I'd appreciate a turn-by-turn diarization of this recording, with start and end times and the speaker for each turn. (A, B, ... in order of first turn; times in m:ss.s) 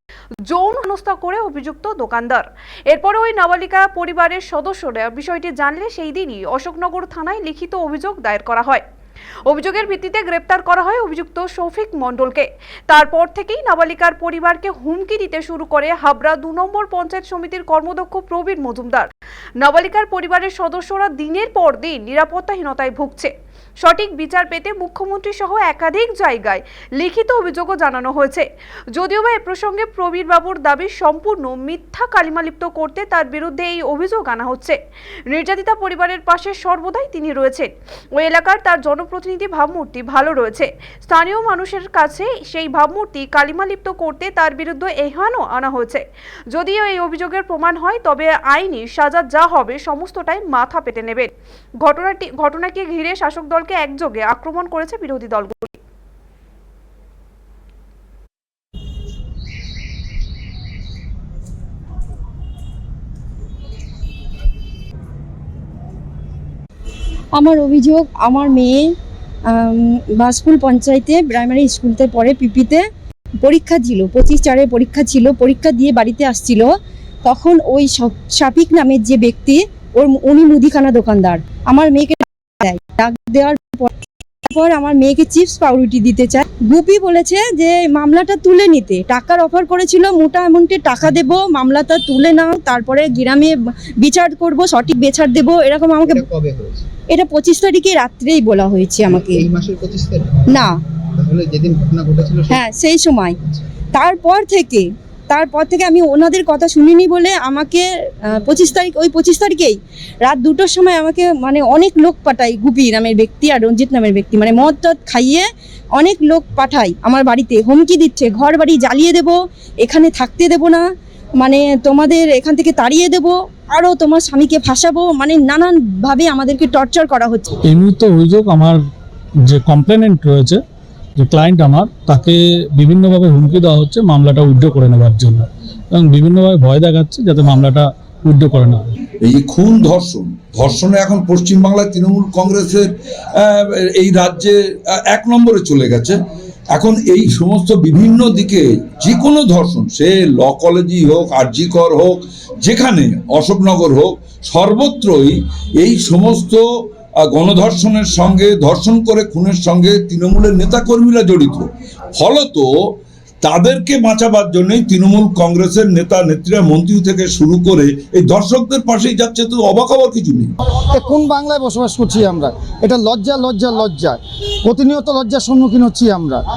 0:00.4-0:08.8 A
0:09.4-0:34.8 A
0:35.3-0:55.8 A
1:07.3-1:08.9 B
1:09.4-1:12.8 B
1:13.4-1:16.7 B
1:17.2-1:23.9 B
1:24.4-1:36.3 B
1:36.0-1:36.9 C
1:37.1-1:39.4 B
1:39.1-1:40.4 C
1:41.2-1:42.6 C
1:42.5-1:43.4 B
1:43.9-2:00.8 B
2:01.4-2:07.6 B
2:07.6-2:08.8 D
2:09.4-2:10.6 D
2:11.2-2:18.8 D
2:19.2-2:22.9 E
2:23.4-2:24.5 E
2:25.1-2:26.2 E
2:26.8-2:36.6 E
2:37.3-2:41.6 E
2:42.2-2:42.7 E
2:43.4-2:50.5 E
2:50.7-2:56.4 F